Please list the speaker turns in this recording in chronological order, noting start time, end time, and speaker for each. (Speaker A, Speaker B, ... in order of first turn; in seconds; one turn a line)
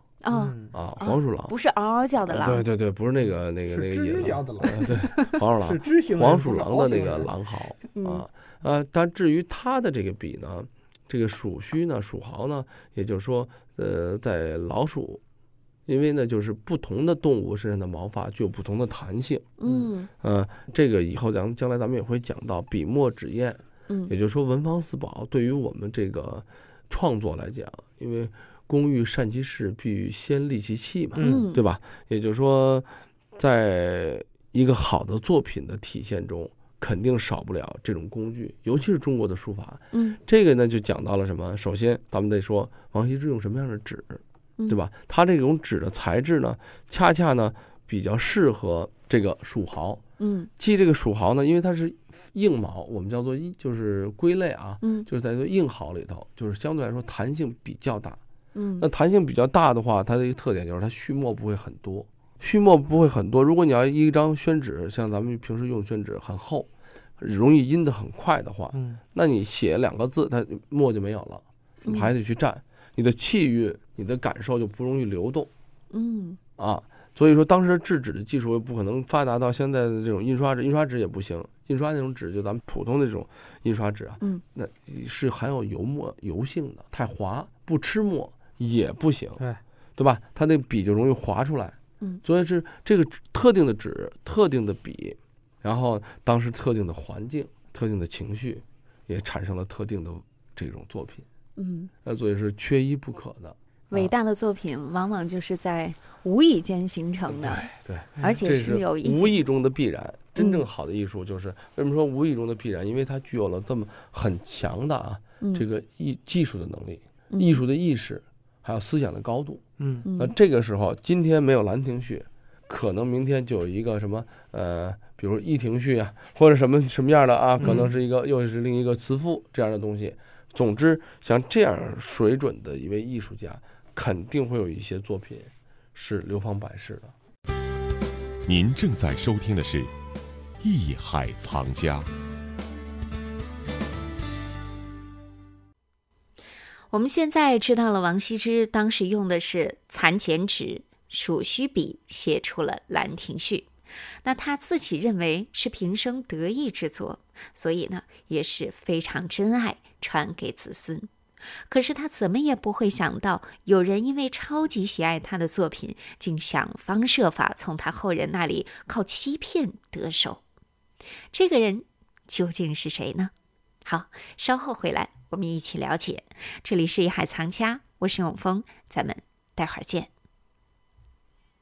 Speaker A: 0.2-2.6
Speaker B: 0.3-0.8
Speaker C: 0.7-1.6
Speaker C: 2.2-15.2
Speaker B: 3.7-5.1
Speaker A: 4.8-5.4
Speaker B: 5.6-7.3
Speaker A: 7.9-8.2
Speaker C: 15.9-19.5
Speaker A: 19.6-20.1
Speaker B: 19.6-19.9
Speaker C: 20.2-50.0
Speaker B: 31.2-31.4
Speaker A: 31.2-31.6
Speaker A: 39.9-40.2
Speaker A: 50.2-50.5
Speaker C: 50.6-58.2
Speaker A: 54.8-55.1
Speaker A: 58.5-58.9
Speaker C: 58.8-75.5
Speaker B: 68.7-69.0
Speaker A: 71.8-72.1
Speaker A: 75.9-76.4
Speaker C: 76.6-89.4
Speaker C: 90.0-101.3
Speaker A: 101.6-101.9
Speaker C: 102.0-104.1
Speaker A: 103.9-107.7
Speaker C: 107.3-119.6
Speaker A: 108.2-109.4
Speaker A: 110.4-110.6
Speaker A: 117.3-117.6
Speaker B: 119.8-120.0
Speaker A: 120.0-120.3
Speaker C: 120.2-137.1
Speaker B: 127.6-127.9
Speaker D: 138.4-139.9
Speaker D: 140.6-142.1
Speaker E: 146.9-153.7
Speaker E: 154.2-161.1
Speaker E: 161.7-170.4
Speaker E: 171.3-173.3
Speaker E: 173.8-180.1